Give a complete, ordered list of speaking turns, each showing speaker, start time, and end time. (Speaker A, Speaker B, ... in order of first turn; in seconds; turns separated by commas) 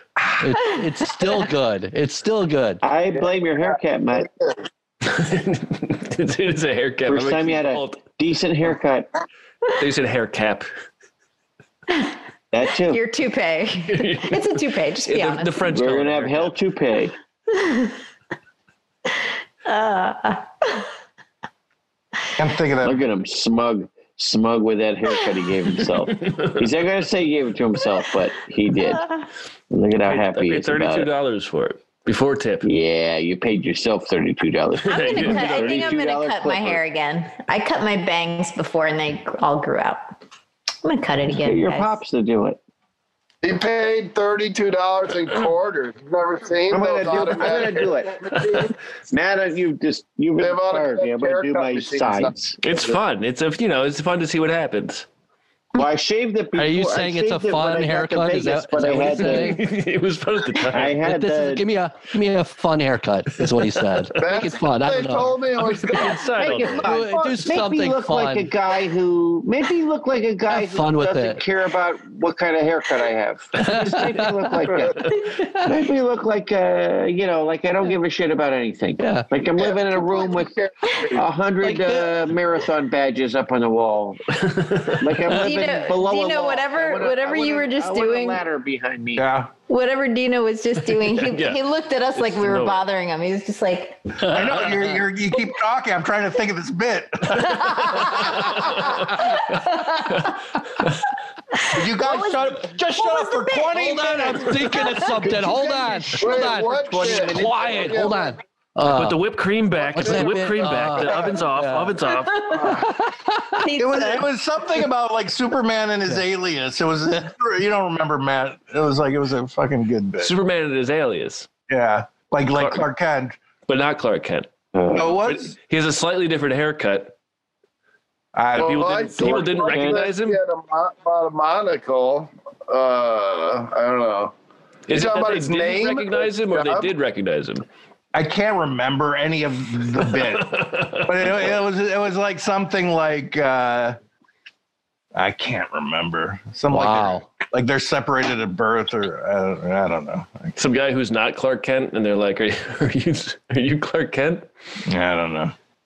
Speaker A: 0.4-2.8, Speaker B: 2.8-4.3, Speaker C: 3.2-4.5, Speaker D: 5.0-8.0, Speaker B: 7.1-9.1, Speaker D: 9.8-10.7, Speaker B: 12.5-13.0, Speaker E: 12.8-15.7, Speaker D: 13.9-14.5, Speaker D: 15.1-16.6, Speaker B: 15.6-17.1, Speaker E: 17.5-18.0, Speaker E: 19.6-20.9, Speaker F: 22.4-23.0, Speaker B: 22.8-29.1, Speaker D: 26.1-26.7, Speaker E: 28.9-29.2, Speaker B: 29.7-31.1, Speaker D: 30.1-32.7, Speaker B: 32.6-36.8, Speaker D: 34.9-35.9, Speaker E: 34.9-40.1, Speaker E: 40.8-42.0, Speaker B: 41.4-42.6, Speaker C: 43.4-48.8, Speaker B: 46.7-48.3, Speaker B: 49.1-52.6, Speaker C: 50.4-53.0, Speaker D: 52.6-55.1, Speaker B: 55.8-59.6, Speaker A: 56.6-59.6, Speaker D: 58.9-61.0, Speaker B: 60.7-61.6, Speaker A: 61.0-65.4, Speaker D: 63.6-64.1, Speaker C: 64.2-67.5, Speaker D: 65.6-66.9, Speaker B: 66.3-80.5, Speaker A: 66.8-68.5, Speaker A: 70.5-71.4, Speaker A: 73.6-74.5, Speaker A: 79.0-79.3, Speaker C: 79.6-81.3, Speaker B: 81.1-84.2, Speaker A: 81.6-82.1, Speaker D: 84.4-85.2, Speaker B: 85.0-89.3, Speaker E: 85.3-88.4, Speaker F: 89.2-89.5, Speaker E: 89.7-94.2, Speaker D: 90.9-91.6, Speaker D: 92.2-92.8, Speaker D: 94.2-95.0, Speaker F: 94.3-98.5, Speaker E: 97.7-98.4, Speaker D: 98.2-101.0, Speaker E: 99.1-100.3, Speaker E: 101.5-104.1, Speaker F: 101.7-104.6, Speaker A: 103.8-109.2, Speaker E: 104.8-105.0, Speaker C: 105.3-108.4, Speaker B: 106.3-107.9, Speaker D: 108.9-112.8, Speaker C: 109.8-110.7, Speaker A: 109.9-112.1, Speaker E: 112.4-112.8, Speaker A: 112.9-113.6, Speaker E: 113.6-114.3, Speaker F: 113.8-120.3, Speaker D: 120.2-121.5, Speaker F: 121.7-123.4, Speaker D: 122.5-122.9, Speaker D: 123.7-124.5, Speaker B: 124.7-125.2, Speaker F: 124.9-125.5, Speaker D: 125.1-127.1, Speaker F: 128.3-129.0, Speaker D: 128.6-130.4, Speaker C: 128.6-134.3, Speaker B: 129.2-130.1, Speaker D: 134.9-137.7, Speaker C: 134.9-136.9, Speaker F: 138.1-144.0, Speaker D: 139.9-141.5, Speaker F: 145.2-150.6, Speaker A: 146.7-147.3, Speaker D: 150.6-154.5, Speaker F: 154.9-155.5